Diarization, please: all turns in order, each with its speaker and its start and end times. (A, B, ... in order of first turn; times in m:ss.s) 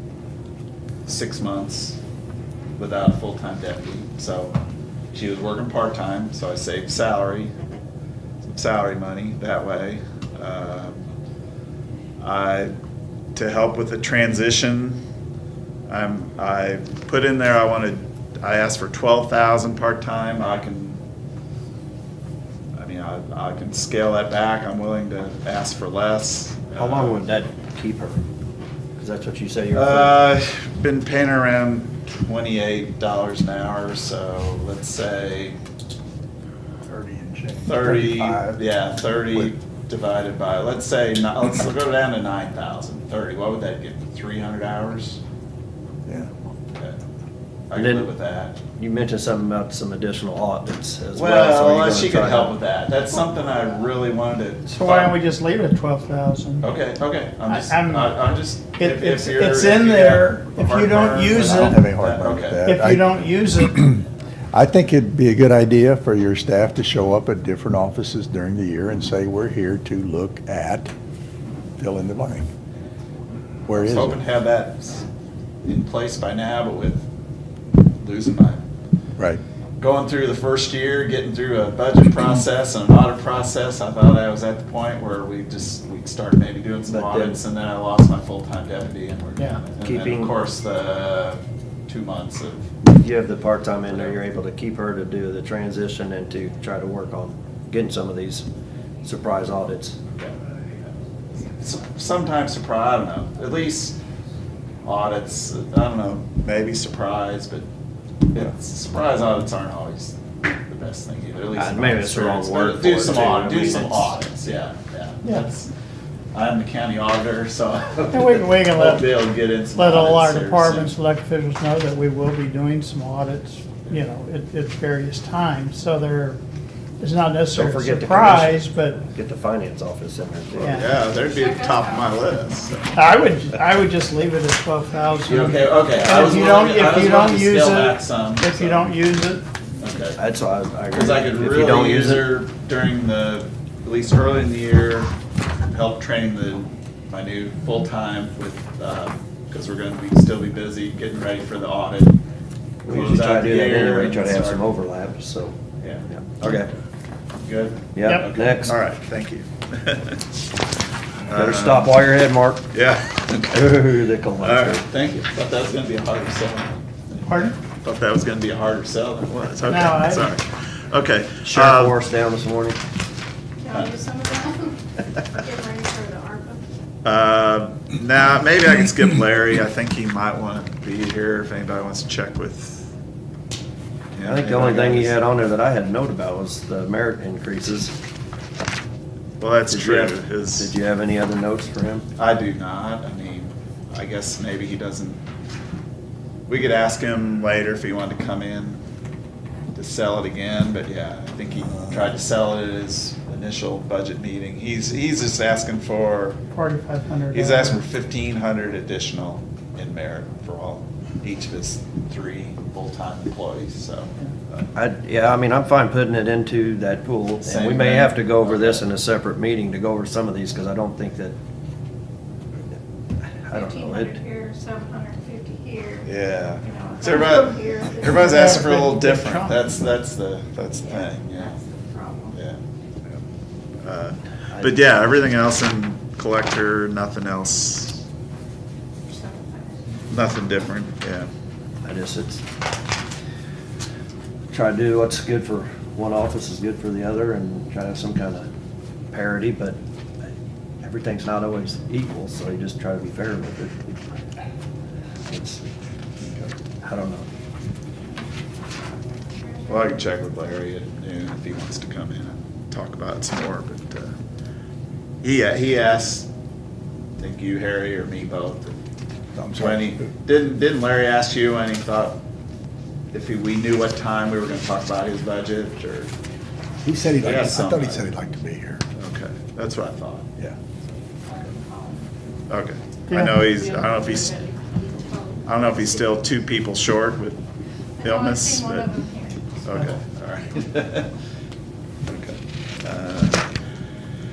0:01.0-0:02.0 A
0:02.8-0:04.6 A
0:05.1-0:07.5 A
0:08.4-0:11.0 A
0:12.2-0:12.7 A
0:13.3-0:15.0 A
0:15.9-0:21.0 A
0:22.7-0:27.2 A
0:26.7-0:28.2 B
0:29.0-0:30.3 B
0:29.7-0:35.6 A
0:36.8-0:38.7 C
0:37.6-0:45.2 A
0:47.7-0:48.6 A
0:47.7-0:48.1 B
0:48.8-0:52.5 B
0:51.1-0:55.2 A
0:54.7-0:56.7 D
0:56.6-1:02.7 A
0:57.4-0:58.2 D
0:58.7-1:01.8 D
1:01.5-1:04.0 C
1:02.6-1:03.8 D
1:04.5-1:10.9 C
1:11.8-1:12.5 C
1:13.7-1:14.2 C
1:13.7-1:15.1 A
1:15.6-1:17.0 A
1:18.0-1:18.6 A
1:19.8-1:32.7 A
1:26.9-1:27.4 B
1:29.8-1:30.3 B
1:32.8-1:38.4 B
1:33.9-1:34.2 A
1:39.0-1:40.0 B
1:40.2-1:44.0 A
1:44.8-1:47.7 A
1:48.3-1:55.7 A
1:51.5-1:54.2 B
1:56.3-2:00.9 A
1:58.1-1:59.2 D
1:59.7-2:06.4 D
2:07.0-2:09.0 D
2:07.5-2:10.8 B
2:10.6-2:12.9 A
2:10.6-2:10.9 D
2:11.2-2:12.1 E
2:12.9-2:19.4 D
2:15.2-2:18.9 A
2:19.8-2:20.2 A
2:20.2-2:22.3 B
2:20.9-2:25.1 A
2:25.7-2:32.2 A
2:32.8-2:34.6 A
2:32.8-2:35.6 B
2:35.8-2:36.6 A
2:36.1-2:36.7 B
2:37.4-2:40.2 A
2:38.0-2:38.8 B
2:41.3-2:41.9 A
2:41.3-2:42.7 B
2:42.7-2:43.8 A
2:43.5-2:44.8 B
2:44.4-2:52.0 A
2:47.2-2:47.5 D
2:49.6-2:50.3 D
2:51.4-2:52.8 B
2:53.6-2:54.8 E
2:55.3-2:56.6 E
2:57.0-3:02.9 A
3:04.1-3:05.2 A
3:04.2-3:07.9 B
3:09.4-3:10.7 A
3:09.7-3:12.1 B
3:12.2-3:15.2 A
3:16.5-3:18.8 A
3:19.7-3:26.4 A
3:26.5-3:27.8 D
3:27.3-3:34.6 A
3:34.7-3:41.4 B
3:37.4-3:38.8 A
3:43.2-3:44.2 B
3:43.5-3:46.1 E
3:46.0-3:51.6 A
3:46.6-3:48.6 E
3:48.1-3:49.6 D
3:50.8-3:52.3 E
3:52.3-3:52.6 A
3:53.8-3:58.0 A
3:54.5-3:54.8 B
3:59.1-3:59.8 E
4:00.1-4:01.3 A
4:01.8-4:02.4 B
4:04.5-4:08.5 B
4:09.1-4:10.3 B
4:10.8-4:14.0 B
4:15.3-4:15.6 B
4:16.3-4:17.2 B
4:19.4-4:19.9 E
4:19.7-4:24.2 A
4:25.2-4:26.3 A
4:27.2-4:28.8 A
4:29.4-4:30.0 C
4:29.5-4:32.2 A
4:33.1-4:36.1 A
4:36.8-4:38.8 C
4:37.2-4:38.1 A
4:38.9-4:40.3 A
4:41.3-4:42.1 E
4:42.5-4:44.4 A
4:43.1-4:43.4 D
4:43.6-4:45.9 E
4:45.4-4:47.4 A
4:48.0-4:49.5 E
4:48.0-4:48.9 A
4:49.6-4:51.1 A
4:52.0-4:53.5 A